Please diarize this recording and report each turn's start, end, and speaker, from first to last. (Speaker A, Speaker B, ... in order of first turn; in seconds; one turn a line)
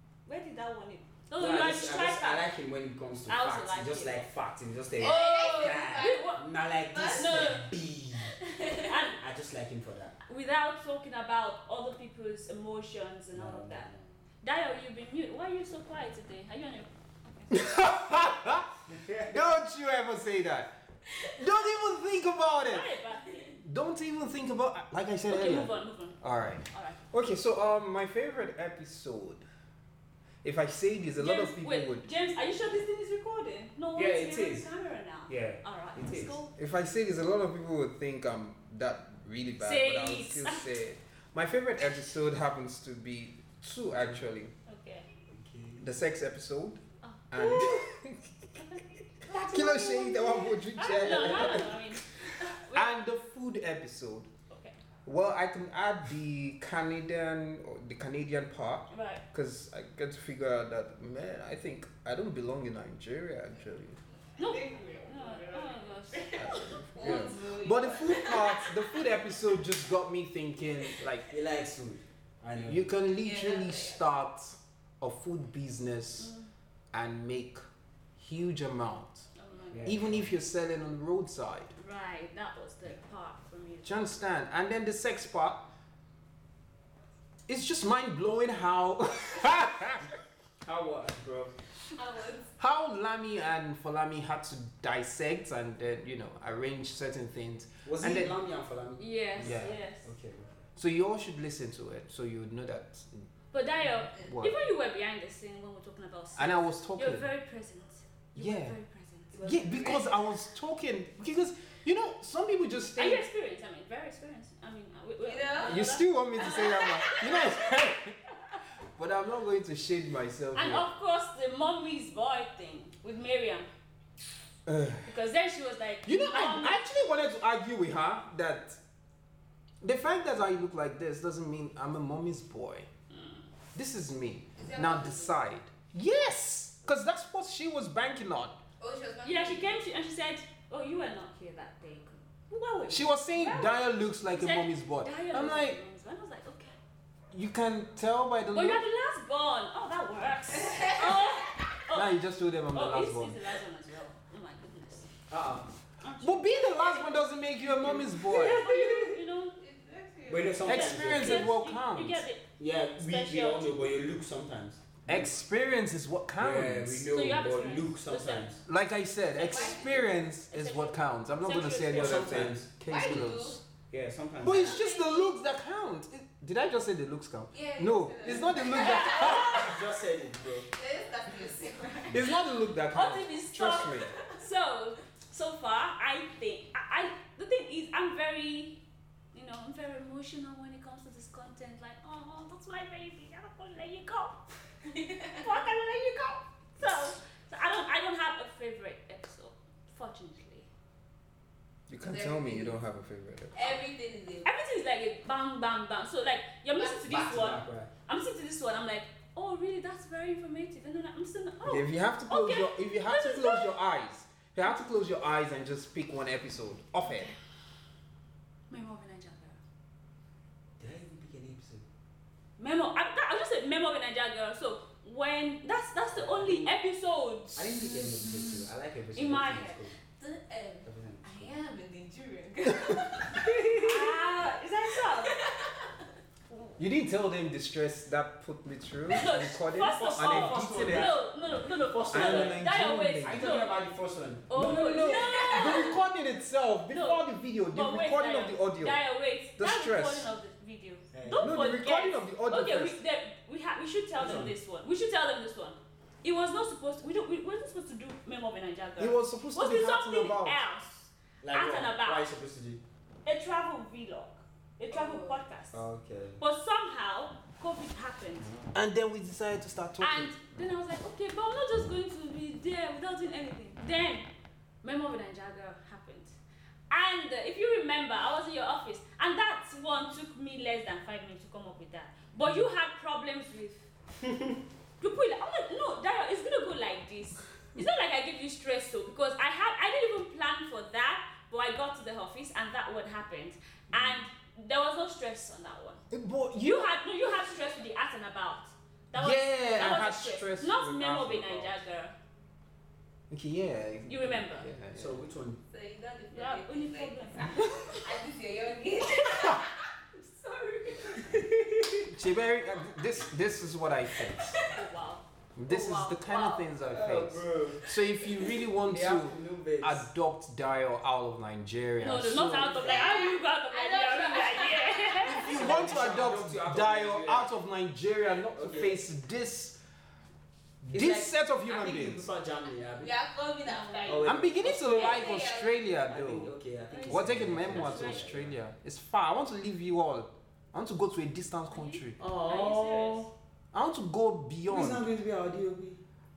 Speaker A: 0.3-2.5
Speaker B: 1.4-8.4
Speaker A: 3.3-4.3
Speaker C: 5.0-6.3
Speaker A: 5.0-6.4
Speaker C: 6.9-9.1
Speaker A: 7.1-7.7
Speaker A: 8.9-9.2
Speaker B: 9.2-10.2
Speaker A: 10.3-13.9
Speaker B: 13.3-14.1
Speaker A: 14.4-17.6
Speaker D: 17.5-18.7
Speaker B: 18.9-19.6
Speaker D: 19.3-22.9
Speaker A: 22.6-23.6
Speaker D: 23.6-29.5
Speaker A: 25.3-27.0
Speaker D: 30.4-32.1
Speaker A: 31.2-36.5
Speaker B: 34.0-34.7
Speaker B: 35.3-36.4
Speaker D: 36.6-44.5
Speaker A: 39.6-40.7
Speaker A: 44.7-45.1
Speaker B: 45.3-45.9
Speaker D: 45.8-48.3
Speaker A: 47.0-47.9
Speaker A: 48.6-53.0
Speaker D: 49.3-51.8
Speaker B: 51.0-51.5
Speaker D: 52.4-54.3
Speaker A: 54.5-54.8
Speaker D: 55.0-64.0
Speaker A: 58.9-59.2
Speaker C: 64.4-69.2
Speaker A: 64.4-67.2
Speaker D: 66.3-71.3
Speaker B: 71.3-72.9
Speaker D: 72.6-76.3
Speaker C: 73.1-74.1
Speaker A: 76.2-76.5
Speaker D: 76.9-77.6
Speaker D: 78.2-79.3
Speaker A: 79.3-80.0
Speaker B: 79.7-80.3
Speaker D: 79.8-81.7
Speaker A: 81.8-84.1
Speaker D: 83.8-85.7
Speaker D: 87.5-90.2
Speaker B: 90.6-91.5
Speaker C: 91.9-92.5
Speaker D: 92.6-98.4
Speaker B: 97.8-100.7
Speaker A: 99.0-100.1
Speaker D: 99.4-99.8
Speaker D: 100.8-103.3
Speaker A: 103.5-109.4
Speaker D: 104.1-104.6
Speaker D: 106.4-107.3
Speaker D: 108.3-108.8
Speaker C: 109.3-110.1
Speaker D: 109.4-113.2
Speaker A: 113.0-116.6
Speaker C: 115.2-117.7
Speaker D: 115.6-118.2
Speaker D: 118.8-120.9
Speaker A: 120.5-123.7
Speaker D: 124.7-125.1
Speaker A: 125.0-126.8
Speaker D: 126.0-128.8
Speaker D: 129.8-132.9
Speaker A: 133.1-133.5
Speaker D: 133.8-138.6
Speaker C: 134.6-135.4
Speaker C: 138.8-139.8
Speaker A: 139.2-146.8
Speaker D: 142.9-145.8
Speaker D: 147.3-148.8
Speaker A: 148.5-152.1
Speaker C: 150.5-151.7
Speaker D: 151.9-153.4
Speaker A: 152.7-155.1
Speaker B: 155.3-155.7
Speaker A: 156.0-159.6
Speaker D: 156.2-158.7
Speaker C: 158.7-161.1
Speaker B: 160.3-161.5
Speaker D: 160.7-162.2
Speaker A: 160.9-163.8
Speaker B: 162.6-165.3
Speaker D: 165.1-167.1
Speaker B: 166.4-168.6
Speaker A: 167.1-168.6
Speaker D: 168.7-173.6
Speaker A: 169.4-169.9
Speaker C: 169.4-170.2
Speaker A: 170.5-172.5
Speaker B: 171.8-172.7
Speaker C: 172.8-173.6
Speaker B: 173.9-174.8
Speaker D: 174.4-179.6
Speaker C: 174.4-175.3
Speaker C: 177.5-179.8
Speaker A: 178.7-179.8
Speaker B: 179.2-180.7
Speaker C: 180.7-182.3
Speaker D: 182.1-184.1
Speaker A: 182.9-188.8
Speaker C: 183.9-184.4
Speaker A: 189.3-194.4
Speaker C: 194.9-195.4
Speaker A: 195.3-200.7
Speaker D: 201.9-203.8
Speaker C: 202.0-202.8
Speaker C: 203.5-204.5
Speaker A: 204.4-213.7
Speaker C: 206.8-207.1
Speaker B: 207.1-207.9
Speaker D: 211.7-217.3
Speaker A: 217.1-217.3
Speaker A: 218.7-219.6
Speaker B: 220.8-221.8
Speaker A: 222.6-229.9
Speaker B: 226.1-226.8
Speaker B: 227.6-230.0
Speaker C: 230.0-234.0
Speaker B: 230.9-231.5
Speaker A: 233.8-235.4
Speaker C: 235.1-236.1
Speaker D: 236.8-241.2
Speaker A: 239.1-243.9
Speaker B: 240.1-242.6
Speaker D: 242.1-243.6
Speaker B: 243.2-244.6
Speaker A: 244.5-246.0
Speaker D: 244.5-249.0
Speaker C: 244.9-246.0
Speaker A: 246.9-262.3
Speaker D: 249.6-250.3
Speaker B: 251.1-251.6
Speaker D: 251.4-253.0
Speaker B: 254.2-254.6
Speaker D: 259.0-260.6
Speaker B: 261.4-262.8
Speaker A: 263.2-265.8
Speaker C: 264.9-265.4
Speaker B: 265.7-266.4
Speaker A: 266.4-268.5
Speaker D: 268.7-270.4
Speaker A: 270.0-274.3
Speaker A: 274.8-276.4
Speaker A: 276.9-283.9
Speaker A: 285.0-296.0
Speaker D: 293.9-294.2
Speaker D: 296.1-297.0
Speaker A: 296.6-302.1
Speaker D: 299.1-301.8
Speaker D: 303.3-305.2
Speaker A: 304.1-304.7
Speaker B: 304.9-305.6
Speaker C: 305.7-311.5
Speaker A: 306.3-308.0
Speaker B: 311.3-312.0
Speaker D: 312.1-314.5
Speaker C: 314.2-314.8
Speaker A: 314.7-316.6
Speaker D: 315.6-322.9
Speaker B: 316.8-317.9
Speaker C: 317.9-318.5
Speaker B: 318.8-320.1
Speaker A: 322.0-325.7
Speaker B: 322.6-323.1
Speaker C: 322.8-326.0
Speaker D: 325.3-329.8
Speaker B: 325.5-327.5
Speaker B: 328.6-329.0
Speaker D: 330.8-332.3
Speaker B: 330.9-333.1
Speaker C: 333.0-335.8
Speaker A: 333.7-334.1
Speaker B: 334.1-335.3
Speaker D: 334.2-336.5
Speaker B: 336.1-338.6
Speaker A: 336.9-338.2
Speaker D: 337.1-342.2
Speaker A: 341.7-343.3
Speaker B: 342.2-343.3
Speaker D: 343.7-345.1
Speaker B: 344.7-346.0